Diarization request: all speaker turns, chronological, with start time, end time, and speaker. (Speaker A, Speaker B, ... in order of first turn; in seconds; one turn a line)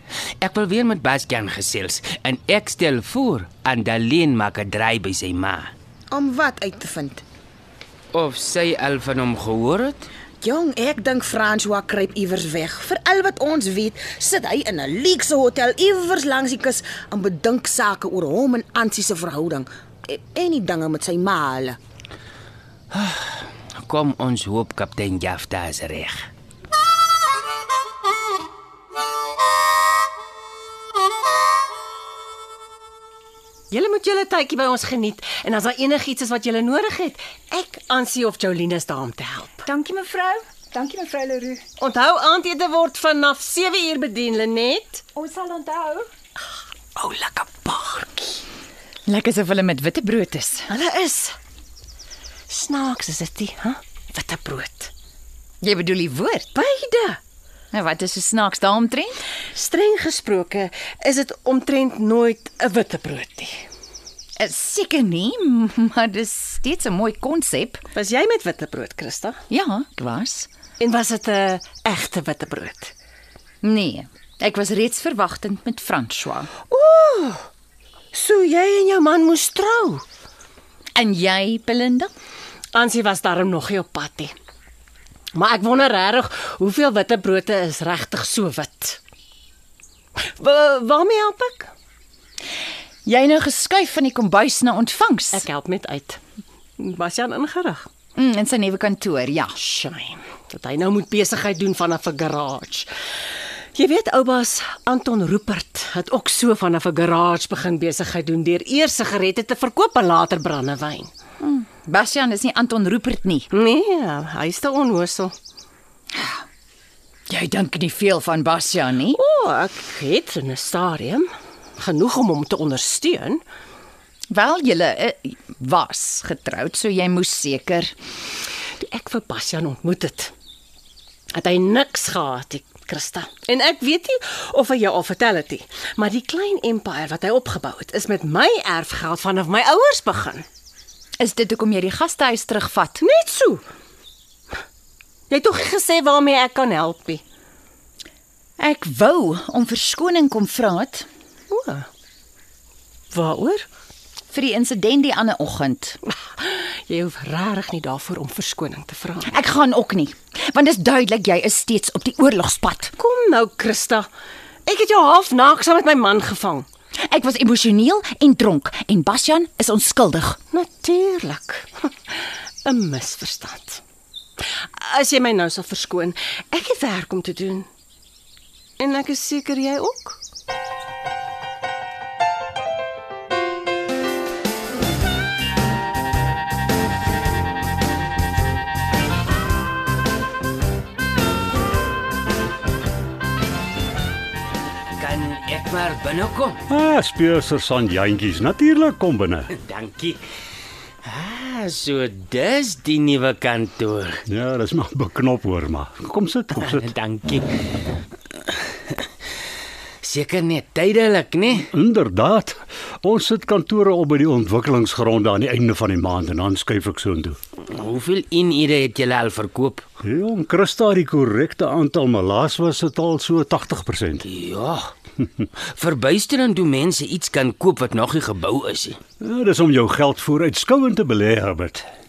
Speaker A: 0.4-5.7
Speaker B: 6.1-7.2
Speaker A: 8.1-10.1
Speaker B: 10.4-21.8
Speaker A: 22.9-26.3
Speaker C: 33.7-39.6
Speaker D: 39.6-41.6
Speaker C: 41.8-45.0
Speaker D: 45.1-46.1
Speaker C: 47.0-48.4
Speaker D: 49.1-50.7
Speaker C: 50.7-51.4
Speaker C: 52.5-54.9
Speaker D: 55.6-56.5
Speaker C: 56.5-57.2
Speaker D: 57.7-59.2
Speaker C: 59.5-63.6
Speaker D: 64.4-67.8
Speaker C: 67.9-69.4
Speaker D: 69.5-70.5
Speaker C: 70.8-72.9
Speaker D: 73.6-76.5
Speaker C: 76.7-77.5
Speaker C: 78.1-80.0
Speaker D: 80.9-82.1
Speaker C: 82.7-84.3
Speaker C: 85.3-89.0
Speaker C: 90.2-91.7
Speaker D: 93.0-95.5
Speaker C: 95.3-96.2
Speaker C: 96.8-97.9
Speaker D: 98.2-99.6
Speaker C: 99.6-102.9
Speaker C: 103.8-111.1
Speaker D: 111.4-113.5
Speaker C: 113.5-115.3
Speaker D: 116.1-116.4
Speaker D: 117.3-119.2
Speaker C: 119.1-123.4
Speaker D: 124.3-127.9
Speaker C: 128.8-130.3
Speaker C: 131.3-140.4
Speaker D: 141.2-143.0
Speaker C: 143.0-143.6
Speaker C: 145.3-147.2
Speaker D: 148.6-151.1
Speaker C: 151.5-151.9
Speaker C: 153.1-153.7
Speaker D: 154.3-156.0
Speaker C: 156.4-159.3
Speaker D: 159.2-162.9
Speaker C: 163.0-164.1
Speaker C: 164.7-166.7
Speaker D: 167.0-170.4
Speaker C: 170.5-173.8
Speaker C: 174.8-177.7
Speaker C: 178.8-180.2
Speaker A: 195.0-196.6
Speaker E: 196.7-199.5
Speaker A: 199.5-200.2
Speaker A: 201.1-204.2
Speaker E: 204.3-206.9
Speaker A: 206.6-207.8
Speaker A: 210.0-211.7
Speaker E: 211.7-217.4
Speaker A: 217.7-219.8
Speaker E: 220.0-224.2
Speaker A: 224.2-224.9
Speaker A: 225.7-229.0
Speaker E: 229.2-231.8